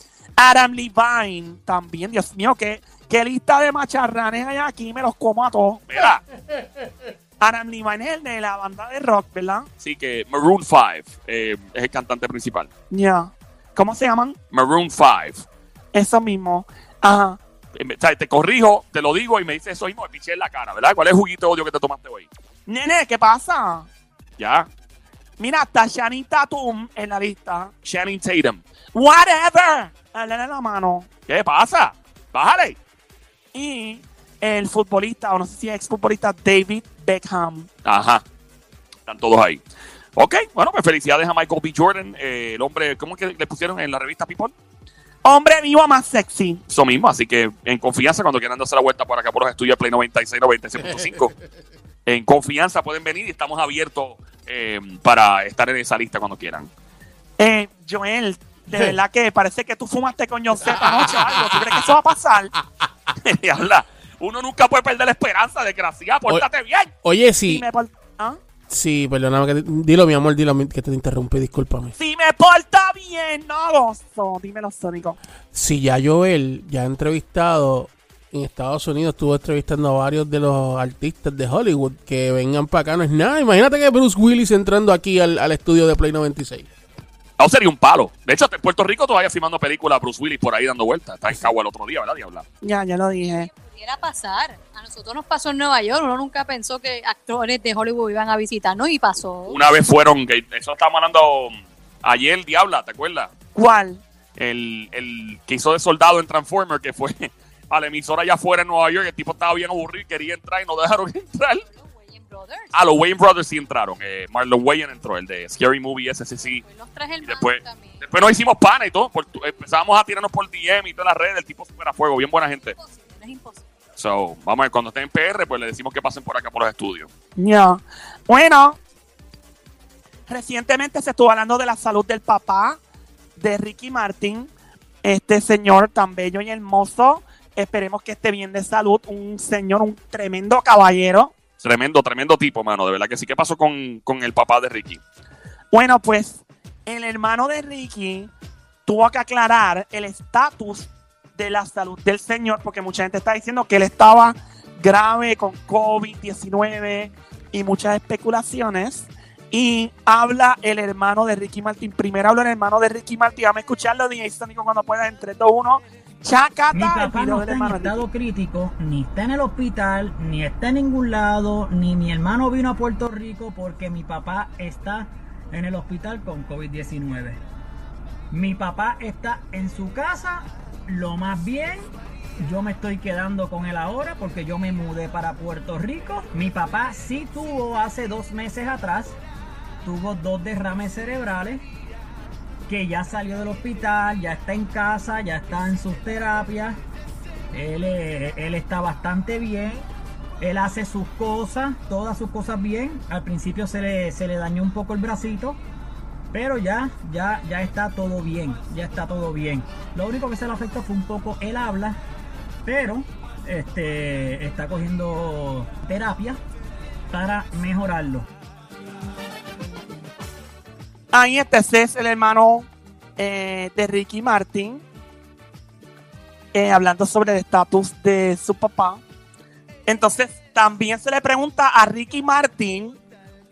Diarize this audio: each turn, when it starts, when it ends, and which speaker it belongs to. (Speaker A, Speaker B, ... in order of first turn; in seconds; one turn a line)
Speaker A: 0.4-6.0
Speaker B: 5.9-6.2
Speaker C: 6.5-7.1
Speaker A: 7.4-9.7
Speaker B: 9.8-12.7
Speaker A: 12.9-14.4
Speaker B: 14.5-15.4
Speaker A: 15.9-17.4
Speaker B: 17.8-22.3
Speaker A: 22.7-23.9
Speaker B: 24.4-24.7
Speaker A: 25.4-27.7
Speaker B: 27.8-28.6
Speaker A: 28.9-31.1
Speaker B: 31.3-32.8
Speaker A: 33.5-37.7
Speaker B: 37.9-38.2
Speaker B: 39.1-39.6
Speaker B: 40.2-44.5
Speaker A: 45.2-46.6
Speaker B: 46.7-51.3
Speaker C: 50.8-51.3
Speaker B: 52.1-56.7
Speaker A: 57.4-62.5
Speaker C: 60.6-61.6
Speaker B: 61.0-61.4
Speaker B: 63.2-66.9
Speaker C: 67.0-67.7
Speaker A: 67.5-68.4
Speaker C: 68.7-71.9
Speaker A: 72.0-75.2
Speaker C: 75.5-86.7
Speaker B: 87.4-92.5
Speaker A: 92.6-93.5
Speaker D: 93.4-99.6
Speaker B: 99.5-103.3
Speaker A: 103.5-104.0
Speaker B: 104.4-111.7
Speaker D: 111.7-112.7
Speaker B: 112.7-116.6
Speaker D: 116.6-118.1
Speaker B: 117.2-122.8
Speaker D: 122.5-123.7
Speaker B: 124.0-127.1
Speaker A: 127.4-128.8
Speaker A: 130.3-132.8
Speaker A: 133.4-134.5
Speaker A: 135.0-141.3
Speaker B: 141.6-145.0
Speaker A: 145.7-148.3
Speaker A: 148.9-168.1
Speaker E: 166.7-177.4
Speaker E: 178.3-181.9
Speaker E: 182.4-189.2
Speaker E: 189.8-191.6
Speaker E: 192.7-196.8
Speaker E: 197.5-199.9
Speaker E: 200.4-205.6
Speaker E: 206.3-212.0
Speaker E: 212.7-216.4
Speaker E: 217.1-218.3
Speaker A: 221.1-224.8
Speaker A: 226.5-229.0
Speaker A: 229.9-233.0